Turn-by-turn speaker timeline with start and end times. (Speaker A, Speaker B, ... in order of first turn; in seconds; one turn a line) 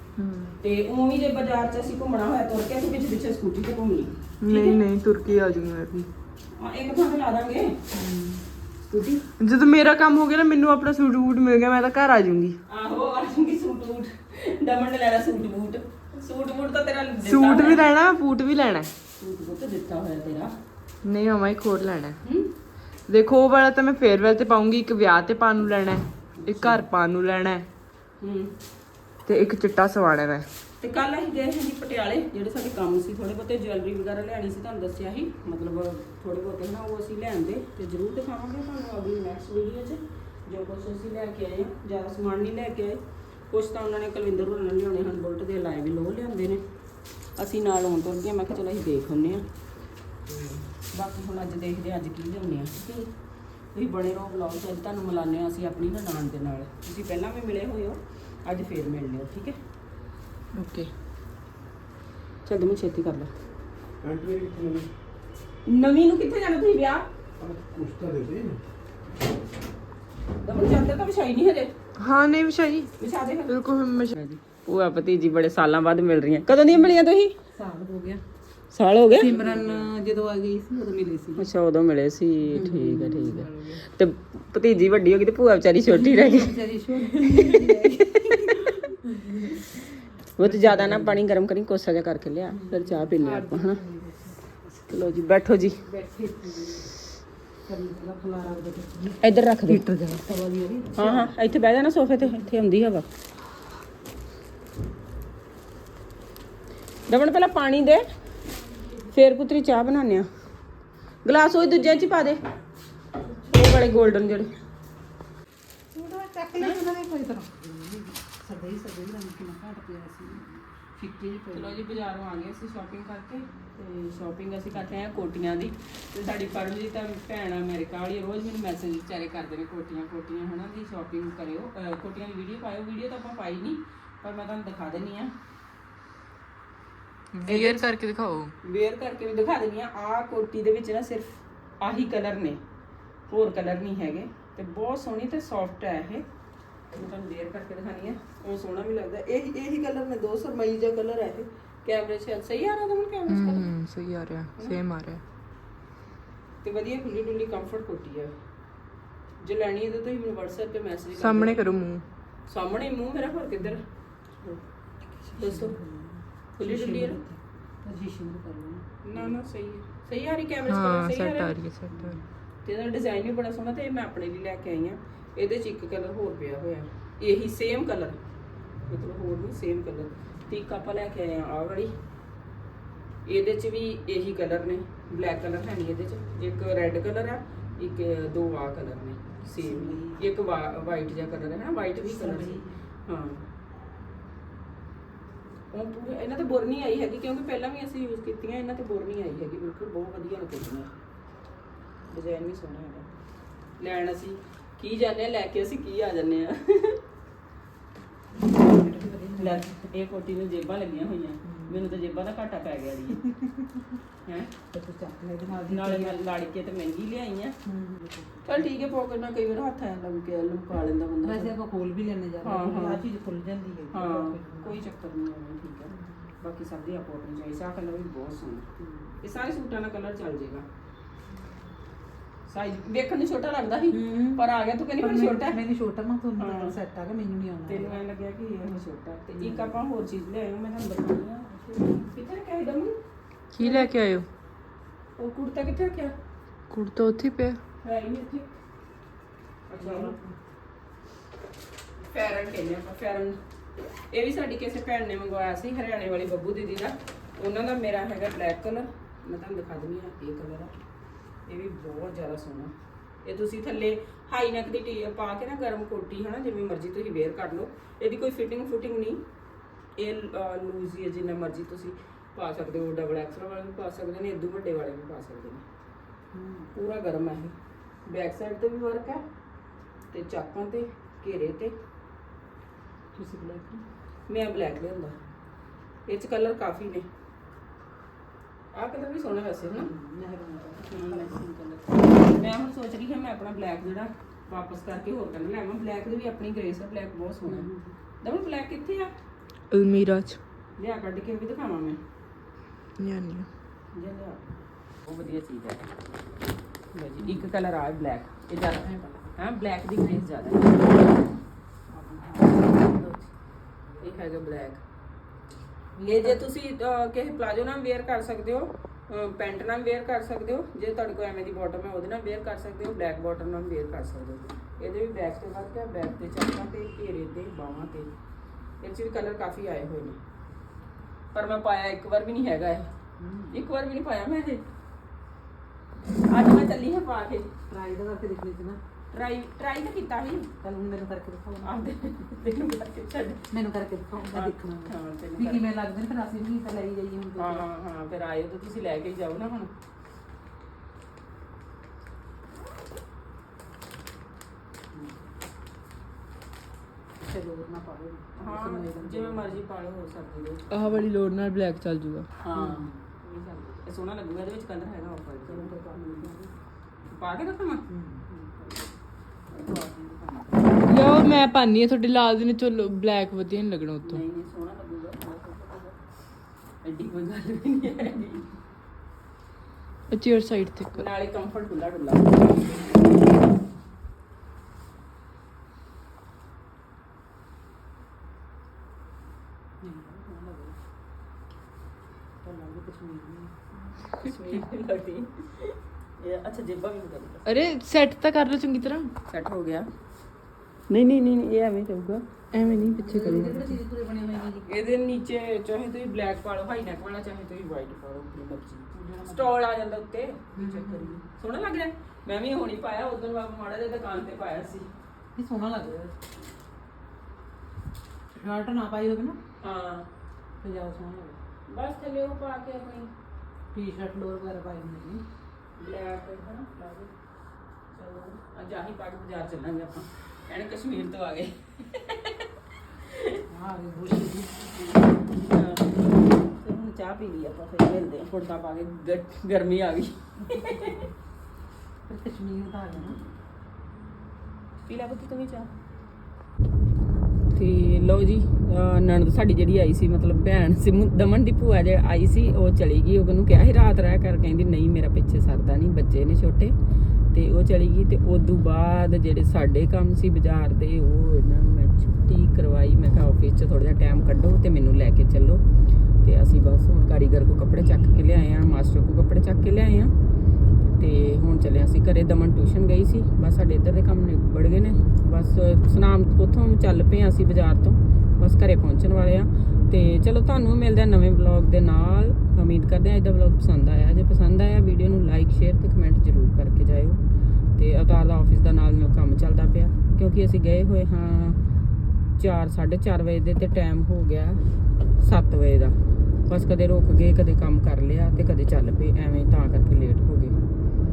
Speaker A: 0.2-0.6
Speaker B: 0.6-4.8
Speaker A: 4.4-6.1
Speaker B: 6.6-7.8
Speaker A: 7.9-8.4
Speaker B: 8.9-9.2
Speaker A: 9.4-12.6
Speaker B: 12.7-17.9
Speaker A: 17.2-18.9
Speaker B: 19.2-20.5
Speaker A: 21.0-22.2
Speaker B: 22.2-22.5
Speaker A: 23.1-27.6
Speaker B: 26.4-26.8
Speaker B: 28.2-28.6
Speaker A: 29.3-30.5
Speaker B: 30.8-46.6
Speaker B: 47.4-49.5
Speaker B: 50.3-53.1
Speaker B: 53.7-59.6
Speaker A: 60.5-60.9
Speaker B: 62.5-63.3
Speaker C: 64.0-64.9
Speaker B: 65.7-67.1
Speaker C: 67.4-68.6
Speaker B: 70.4-71.7
Speaker A: 72.0-72.9
Speaker B: 73.0-77.3
Speaker A: 73.5-74.2
Speaker D: 77.5-78.2
Speaker B: 78.7-79.8
Speaker D: 79.1-81.5
Speaker B: 81.4-86.5
Speaker D: 82.5-82.8
Speaker A: 82.6-83.8
Speaker D: 85.9-88.0
Speaker B: 87.4-88.8
Speaker B: 90.4-93.8
Speaker D: 90.4-91.2
Speaker D: 92.5-94.4
Speaker B: 94.9-95.8
Speaker D: 95.8-96.9
Speaker D: 97.7-99.2
Speaker B: 99.2-99.8
Speaker A: 99.7-99.9
Speaker D: 99.9-101.3
Speaker B: 101.0-103.0
Speaker B: 107.1-108.1
Speaker B: 109.0-110.3
Speaker B: 111.2-112.4
Speaker B: 113.4-114.5
Speaker D: 115.9-121.8
Speaker B: 116.6-116.8
Speaker B: 121.5-135.3
Speaker A: 137.3-138.5
Speaker B: 137.5-137.9
Speaker B: 138.6-142.6
Speaker B: 143.3-146.2
Speaker B: 146.9-153.8
Speaker A: 153.3-155.2
Speaker B: 156.6-158.3
Speaker B: 159.4-161.8
Speaker A: 161.2-162.0
Speaker B: 162.5-163.8
Speaker D: 165.3-169.4
Speaker B: 165.4-165.8
Speaker B: 166.6-167.2
Speaker B: 169.0-171.6
Speaker A: 170.7-172.2
Speaker D: 171.9-172.2
Speaker B: 172.7-178.2
Speaker B: 178.9-181.9
Speaker B: 183.3-193.5
Speaker D: 189.6-190.2
Speaker D: 192.0-192.7
Speaker B: 195.7-200.9
Speaker B: 202.1-203.1
Speaker B: 203.8-207.0
Speaker D: 208.6-209.7
Speaker B: 209.4-213.2
Speaker D: 211.4-211.8
Speaker B: 214.2-214.5
Speaker D: 214.7-216.2
Speaker B: 215.7-217.6
Speaker D: 217.7-218.7
Speaker B: 218.4-221.5
Speaker D: 221.2-224.8
Speaker B: 222.4-223.0
Speaker B: 223.9-228.7
Speaker D: 225.9-226.2
Speaker D: 228.8-229.1
Speaker B: 229.2-230.7
Speaker B: 232.5-235.6
Speaker A: 233.9-234.4
Speaker D: 235.0-238.0
Speaker B: 236.4-236.8
Speaker B: 237.7-243.0
Speaker D: 239.3-239.8
Speaker A: 243.6-244.3
Speaker B: 243.6-243.9
Speaker B: 245.2-246.1
Speaker A: 246.7-247.6
Speaker B: 247.8-248.5
Speaker B: 249.7-250.2
Speaker D: 249.8-250.3
Speaker B: 252.1-253.4
Speaker B: 254.1-260.7
Speaker B: 261.5-262.7
Speaker B: 263.2-269.2
Speaker B: 270.0-275.6
Speaker D: 276.3-276.7
Speaker B: 276.8-277.5
Speaker B: 278.1-279.2
Speaker B: 280.1-281.8
Speaker D: 283.1-283.8
Speaker B: 284.3-285.2
Speaker B: 286.1-287.1
Speaker B: 288.7-289.9
Speaker D: 289.7-291.4
Speaker B: 290.9-297.7
Speaker D: 292.1-292.4
Speaker D: 297.4-297.9
Speaker B: 298.2-299.1
Speaker A: 299.7-300.4
Speaker B: 300.8-302.0
Speaker A: 303.0-303.5
Speaker B: 303.9-304.5
Speaker B: 305.0-305.9
Speaker B: 306.9-311.1
Speaker D: 308.8-309.3
Speaker D: 311.9-313.0
Speaker B: 312.7-313.2
Speaker B: 314.0-314.8
Speaker D: 316.0-316.4
Speaker B: 316.1-328.1
Speaker B: 328.8-330.2
Speaker B: 331.3-332.9
Speaker D: 333.2-333.6
Speaker B: 333.5-334.6
Speaker B: 336.3-337.5
Speaker D: 337.7-338.8
Speaker B: 339.1-340.5
Speaker D: 340.6-341.9
Speaker B: 341.6-343.4
Speaker D: 343.5-347.7
Speaker B: 344.3-345.7
Speaker B: 347.4-349.7
Speaker D: 357.2-359.6
Speaker B: 358.4-361.1
Speaker A: 360.7-362.3
Speaker B: 362.4-366.3
Speaker D: 362.6-363.0
Speaker D: 365.5-366.5
Speaker B: 367.1-368.9
Speaker D: 367.9-368.2
Speaker B: 369.5-370.9
Speaker A: 370.9-374.2
Speaker B: 374.0-376.0
Speaker B: 376.8-378.5
Speaker A: 380.1-381.0
Speaker B: 380.9-383.1
Speaker D: 389.8-390.8
Speaker D: 392.4-393.5
Speaker B: 394.1-397.5
Speaker D: 394.2-394.6
Speaker A: 397.4-399.1
Speaker B: 399.3-399.9
Speaker B: 400.9-402.2
Speaker A: 402.5-403.6
Speaker D: 402.8-404.7
Speaker B: 403.1-403.6
Speaker B: 404.7-414.9
Speaker D: 408.9-409.6
Speaker D: 410.6-411.2
Speaker D: 415.4-416.1
Speaker D: 418.4-419.4
Speaker B: 419.6-420.1
Speaker D: 420.6-421.4
Speaker B: 421.7-423.1
Speaker D: 423.7-425.2
Speaker B: 425.8-427.1
Speaker B: 427.9-432.4
Speaker B: 432.9-433.4
Speaker D: 433.5-434.5
Speaker B: 434.8-440.9
Speaker D: 440.5-441.1
Speaker D: 442.1-443.2
Speaker B: 444.9-445.7
Speaker B: 447.5-456.8
Speaker B: 457.3-465.6
Speaker B: 466.2-470.1
Speaker B: 471.0-487.2
Speaker B: 487.8-491.6
Speaker B: 492.4-494.6
Speaker B: 495.2-500.6